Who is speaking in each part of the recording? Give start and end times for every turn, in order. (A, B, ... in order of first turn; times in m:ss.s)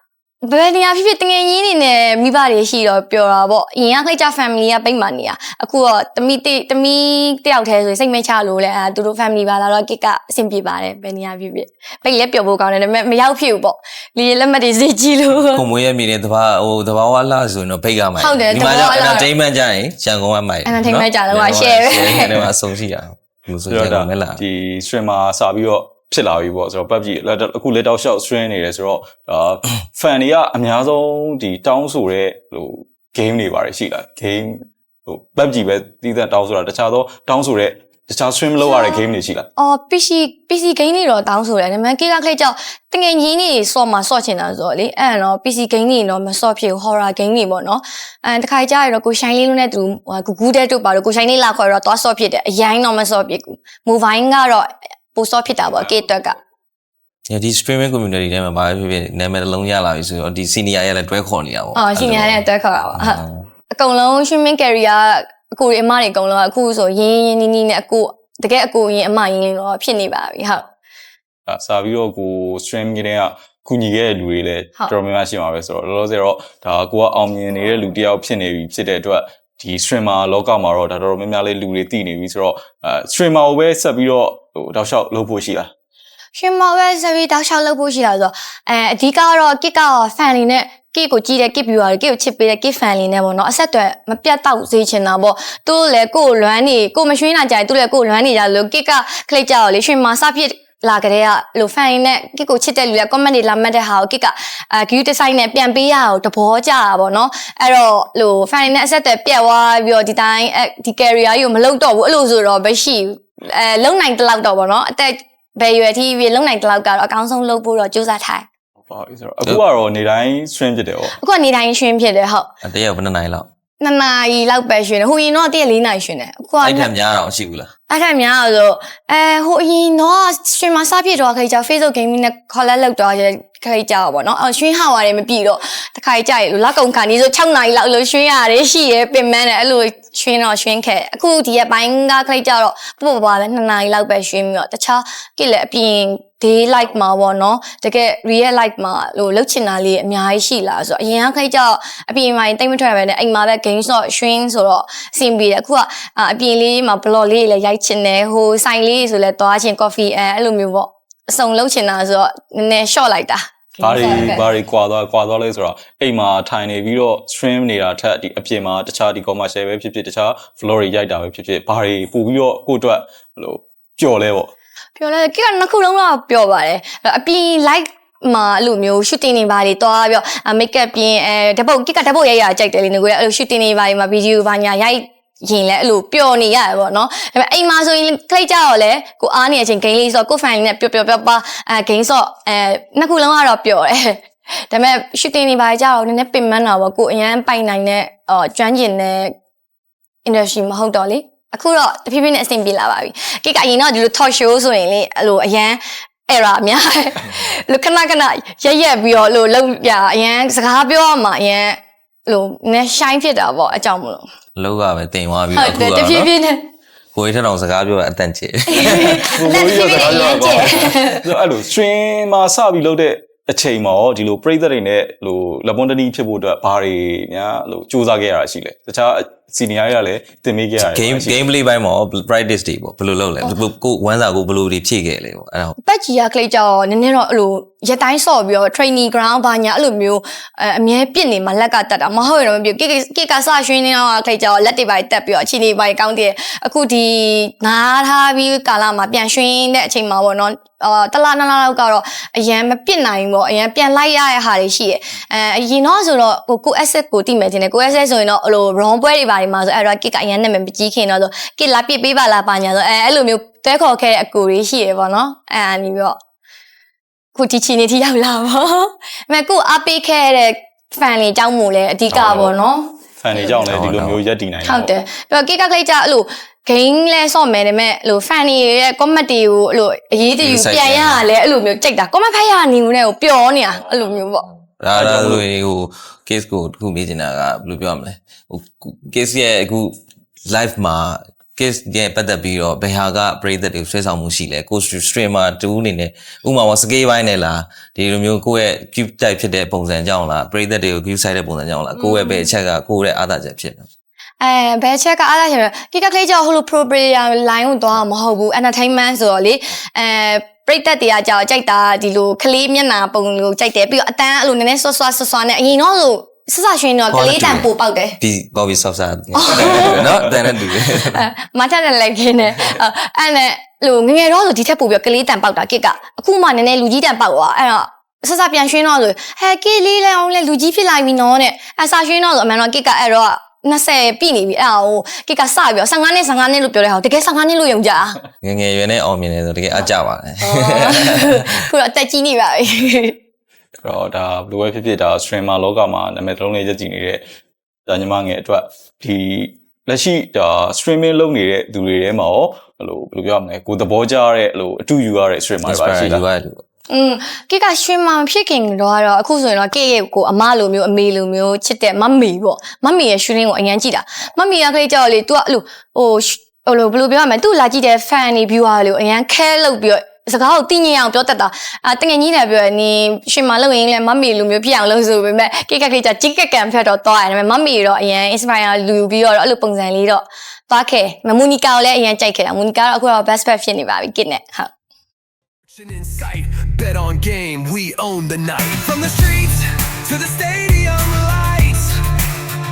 0:00.4-0:15.7 A
0:15.5-0:24.4 B
0:18.2-0:19.3 A
0:20.6-0:22.5 A
0:23.7-0:39.5 C
0:38.6-0:39.0 A
0:39.6-0:56.4 A
0:57.3-1:03.5 B
1:01.8-1:10.7 A
1:11.5-1:25.7 C
1:26.4-1:58.5 A
1:58.9-2:01.1 C
2:01.1-2:02.5 A
2:02.6-2:03.5 B
2:03.8-2:06.9 A
2:06.6-2:07.7 B
2:07.9-2:44.5 A
2:43.8-2:54.5 C
2:55.0-3:19.3 A
3:20.2-3:34.3 A
3:34.6-3:36.3 B
3:35.5-3:36.7 A
3:37.2-3:39.3 B
3:38.7-3:41.2 A
3:39.1-3:51.5 C
3:50.8-3:55.8 B
3:55.8-4:26.2 A
4:27.3-4:33.0 A
4:32.1-4:32.6 C
4:33.2-4:34.9 C
4:33.7-4:34.2 B
4:34.6-4:44.4 A
4:40.4-4:41.2 B
4:44.8-5:03.9 B
4:44.9-4:45.5 C
5:01.9-5:02.5 A
5:04.4-5:18.2 A
5:17.1-5:17.7 B
5:18.2-5:21.3 B
5:19.3-5:20.0 A
5:20.8-5:38.2 A
5:38.4-5:41.6 B
5:40.4-5:43.2 A
5:43.8-5:47.2 C
5:47.9-5:56.2 C
5:55.6-5:56.6 B
5:56.9-6:24.7 A
6:25.7-6:32.0 D